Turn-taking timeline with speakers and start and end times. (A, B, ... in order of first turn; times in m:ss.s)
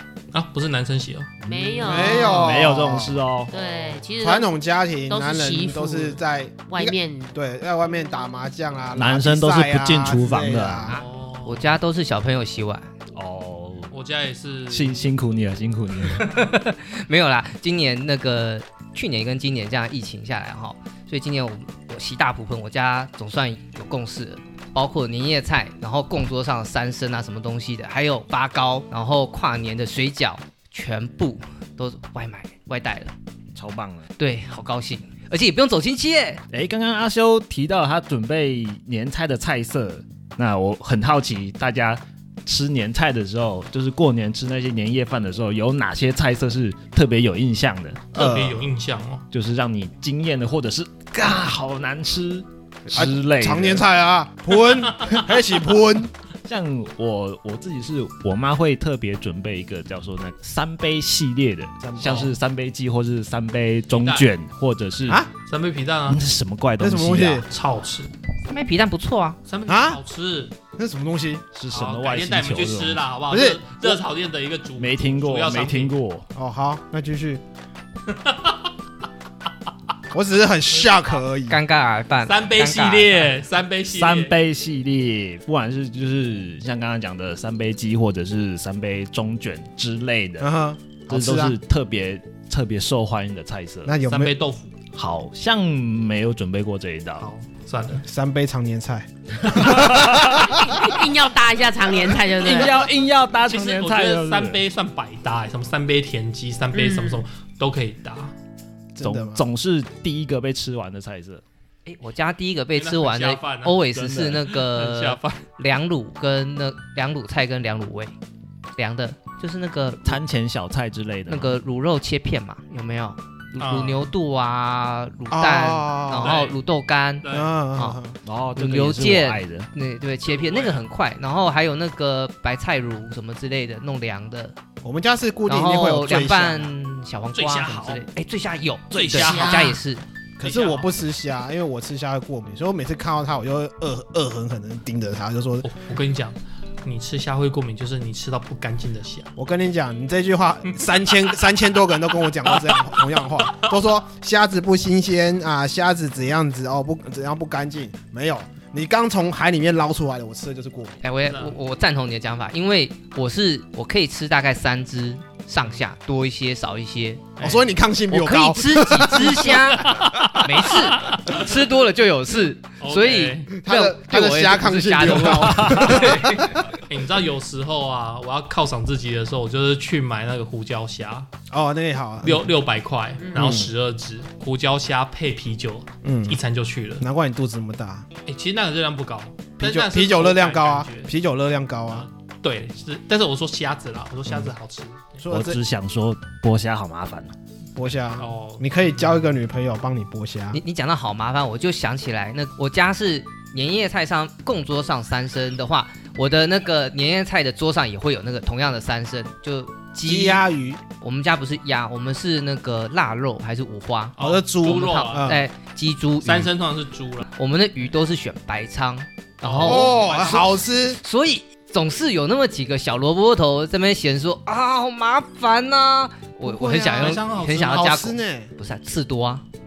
0:00.3-0:01.3 A
0:01.4-0:03.5 B
0:01.4-0:02.5 C
0:01.8-0:03.2 D
0:03.5-0:04.5 C
0:04.2-0:10.9 D
0:05.1-0:07.3 C
0:08.9-0:10.9 B
0:10.9-0:11.8 A
0:10.9-0:12.9 E
0:13.1-0:13.9 B
0:13.9-0:15.0 A
0:14.7-0:16.3 B
0:16.2-0:33.1 E
0:33.5-0:34.1 B
0:34.2-0:36.4 E
0:36.5-0:48.0 B
0:48.1-0:48.7 D
0:48.1-0:49.2 A
0:49.3-0:53.8 B
0:52.9-0:56.1 D
0:56.4-1:05.2 B
1:01.8-1:02.3 D
1:03.9-1:04.3 A
1:05.5-1:06.2 A
1:06.1-1:07.4 B
1:06.8-1:07.4 D
1:07.5-1:08.1 A
1:08.5-1:09.4 E
1:09.5-1:10.5 A
1:09.7-1:10.0 D
1:10.8-1:11.4 D
1:11.5-1:13.0 B
1:11.7-1:15.9 A
1:13.3-1:14.0 D
1:14.8-1:16.3 B
1:16.3-1:17.4 D
1:18.1-1:18.6 A
1:20.1-1:21.6 D
1:21.5-1:23.4 E
1:22.2-1:24.3 A
1:23.9-1:30.5 B
1:30.4-1:31.5 D
1:31.1-1:33.9 B
1:33.8-1:34.3 D
1:34.0-1:34.7 A
1:34.9-1:37.3 B
1:37.2-1:38.0 A
1:38.0-1:40.8 D
1:39.4-1:40.5 B
1:40.4-1:42.8 C
1:42.3-1:44.6 B
1:43.5-1:48.3 A
1:46.7-1:47.2 C
1:48.9-1:49.4 D
1:49.0-1:51.4 B
1:51.8-1:58.1 E
1:52.7-1:55.4 A
1:58.8-2:00.2 E
2:00.0-2:01.6 B
2:01.3-2:08.0 E
2:03.6-2:04.1 A
2:05.3-2:06.4 D
2:06.2-2:06.6 A
2:07.2-2:07.5 A
2:07.3-2:08.2 D
2:08.2-2:09.7 B
2:08.5-2:14.6 E
2:10.3-2:10.8 A
2:14.8-2:16.7 D
2:15.5-2:20.0 E
2:17.3-2:18.0 A
2:18.9-2:19.7 B
2:18.9-2:19.8 A
2:19.3-2:19.6 C
2:20.4-2:25.6 D
2:20.4-2:20.9 A
2:25.6-2:29.3 A
2:29.4-2:41.0 D
2:41.0-2:47.3 E
2:41.2-2:41.6 A
2:47.4-2:47.6 A
2:47.4-2:49.6 D
2:48.1-2:56.7 E
2:49.2-2:51.4 A
2:52.8-2:53.5 A
2:53.6-2:56.7 D
2:55.5-2:55.9 B
2:56.8-3:01.3 A
3:01.5-3:02.5 D
3:02.2-3:07.0 A
3:03.2-3:03.6 C
3:03.3-3:03.7 D
3:06.0-3:06.4 D
3:07.0-3:08.0 D
3:08.2-3:11.1 A
3:09.6-3:12.1 D
3:11.9-3:15.2 A
3:15.2-3:15.6 D
3:15.3-3:17.3 B
3:17.8-3:20.6 D
3:18.2-3:19.2 A
3:20.5-3:30.4 E
3:30.0-3:30.8 D
3:31.0-3:36.5 E
3:34.2-3:35.4 A
3:34.2-3:35.4 D
3:36.2-3:37.2 A
3:37.3-3:49.4 E
3:39.4-3:40.4 A
3:39.6-3:41.0 D
3:46.4-3:48.5 D
3:46.6-3:47.8 A